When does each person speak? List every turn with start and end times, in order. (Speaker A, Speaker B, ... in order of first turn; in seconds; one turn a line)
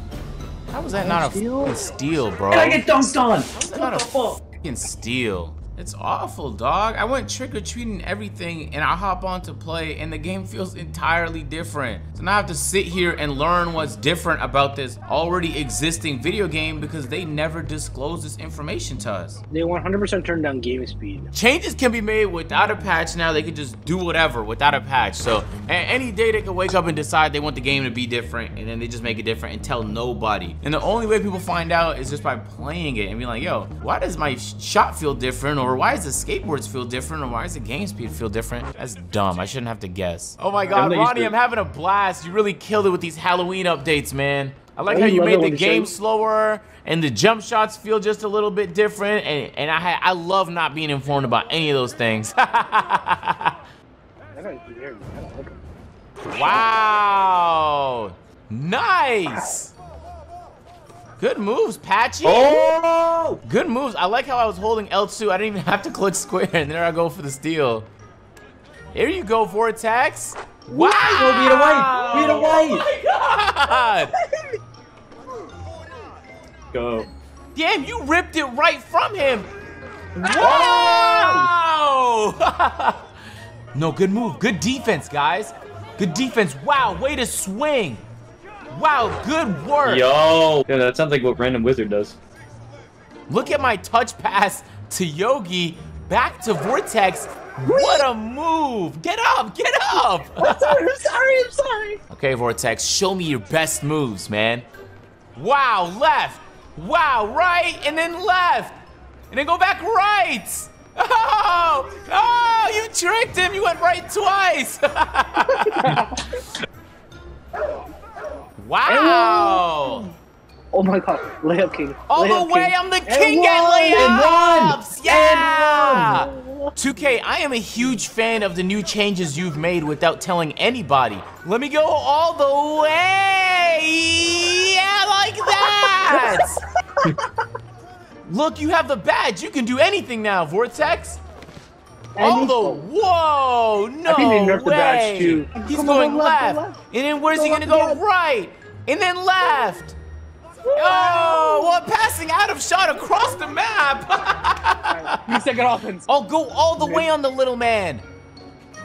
Speaker A: 0.7-19.4
Speaker B: 0.9-1.9
Speaker C: 2.5-4.4
Speaker B: 19.5-21.3
Speaker A: 21.3-53.6
Speaker C: 40.7-41.3
Speaker B: 44.9-45.9
Speaker B: 54.3-55.6
Speaker A: 56.2-59.7
Speaker B: 56.4-56.6
Speaker A: 61.2-62.7
Speaker C: 62.2-63.4
Speaker A: 63.5-67.9
Speaker A: 68.9-74.1
Speaker C: 70.7-72.9
Speaker C: 76.7-77.1
Speaker A: 77.5-79.5
Speaker A: 80.2-83.1
Speaker B: 80.3-80.7
Speaker C: 80.4-81.5
Speaker A: 83.8-88.0
Speaker A: 88.7-90.1
Speaker C: 89.8-92.2
Speaker A: 93.3-101.0
Speaker B: 97.7-98.1
Speaker B: 100.4-102.0
Speaker A: 102.1-104.7
Speaker A: 105.4-108.8
Speaker A: 109.3-116.0
Speaker B: 115.5-116.2
Speaker A: 118.6-120.1
Speaker B: 118.9-120.1
Speaker B: 120.7-124.2
Speaker A: 122.1-136.6
Speaker C: 123.9-126.2
Speaker B: 126.1-126.8
Speaker B: 135.6-136.5
Speaker A: 138.3-141.2
Speaker B: 142.2-142.9
Speaker A: 142.2-150.0
Speaker B: 144.1-146.8
Speaker B: 147.3-148.0
Speaker B: 150.7-151.8
Speaker A: 150.8-155.4
Speaker B: 154.8-156.1
Speaker A: 156.1-158.0
Speaker B: 156.8-157.1